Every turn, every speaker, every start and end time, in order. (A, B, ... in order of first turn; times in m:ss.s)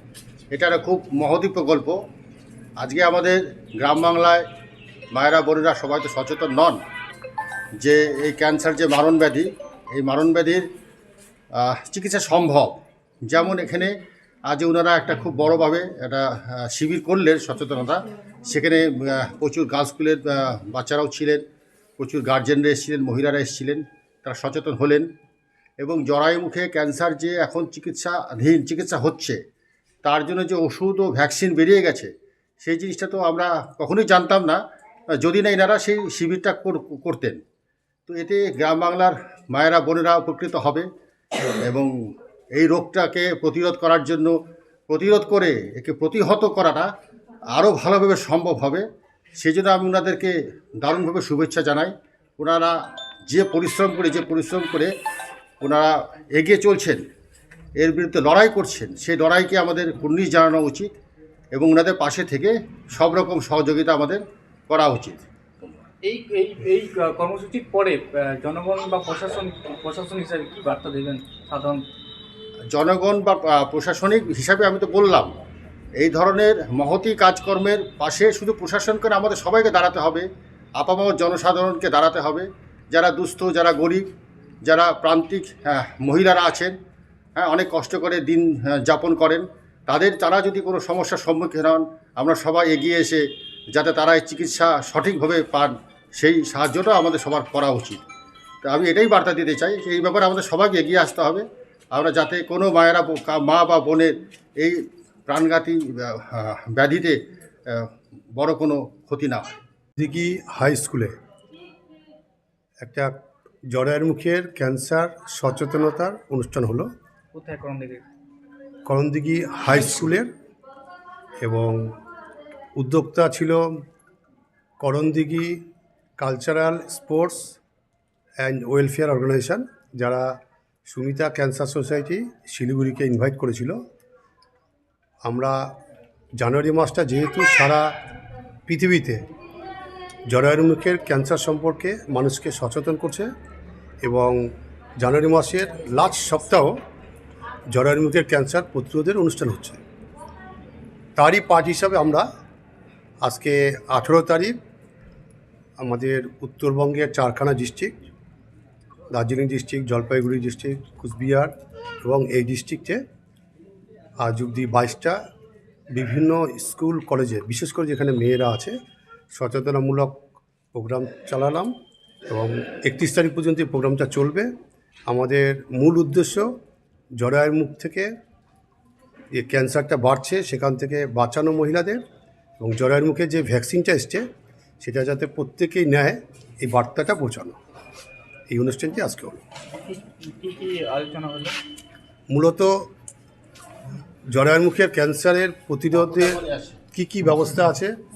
0:00.5-0:02.0 A
0:02.8-0:04.4 A
0:05.1-0:06.8 A
0:07.8-0:10.7 A
0:11.5-0:21.4 A
0:22.0-0:25.1 A
0:25.8-0:29.4 A
0:30.0-0:32.1 A
0:32.6-0:34.6 A
0:35.2-0:37.4 A
0:38.1-0:40.9 A
0:41.6-0:41.9 A
0:42.5-0:44.3 A
0:44.9-0:46.9 A
0:47.6-0:48.8 A
0:49.4-0:54.9 A
0:55.6-0:57.0 A
0:57.8-1:00.9 A
1:01.5-1:05.8 A
1:06.0-1:11.8 B
1:12.7-1:15.4 A
1:16.0-1:24.1 A
1:24.6-1:26.8 A
1:27.4-1:38.0 A
1:38.6-1:47.2 A
1:47.7-1:49.6 A
1:50.0-1:51.1 C
1:52.8-1:53.1 C
1:53.7-1:56.9 C
1:57.3-1:58.1 B
1:58.9-2:00.3 C
2:01.4-2:01.9 C
2:02.8-2:03.6 C
2:04.8-2:05.6 C
2:06.2-2:07.6 C
2:08.4-2:13.8 C
2:15.2-2:15.8 C
2:16.4-2:17.9 C
2:18.7-2:19.3 C
2:20.3-2:23.3 C
2:24.0-2:26.8 C
2:27.7-2:29.8 C
2:31.2-2:32.3 C
2:33.2-2:34.6 C
2:35.8-2:38.0 C
2:39.1-2:43.0 C
2:44.2-2:45.2 C
2:45.9-2:48.8 C
2:49.3-2:50.2 C
2:50.7-2:51.7 C
2:52.3-2:54.5 C
2:55.1-2:56.5 C
2:57.2-2:58.1 C
2:59.3-3:02.0 C
3:02.6-3:04.3 C
3:04.8-3:07.6 C
3:08.5-3:09.4 C
3:09.8-3:11.6 B
3:12.3-3:12.9 C
3:14.3-3:17.9 C
3:16.2-3:16.8 A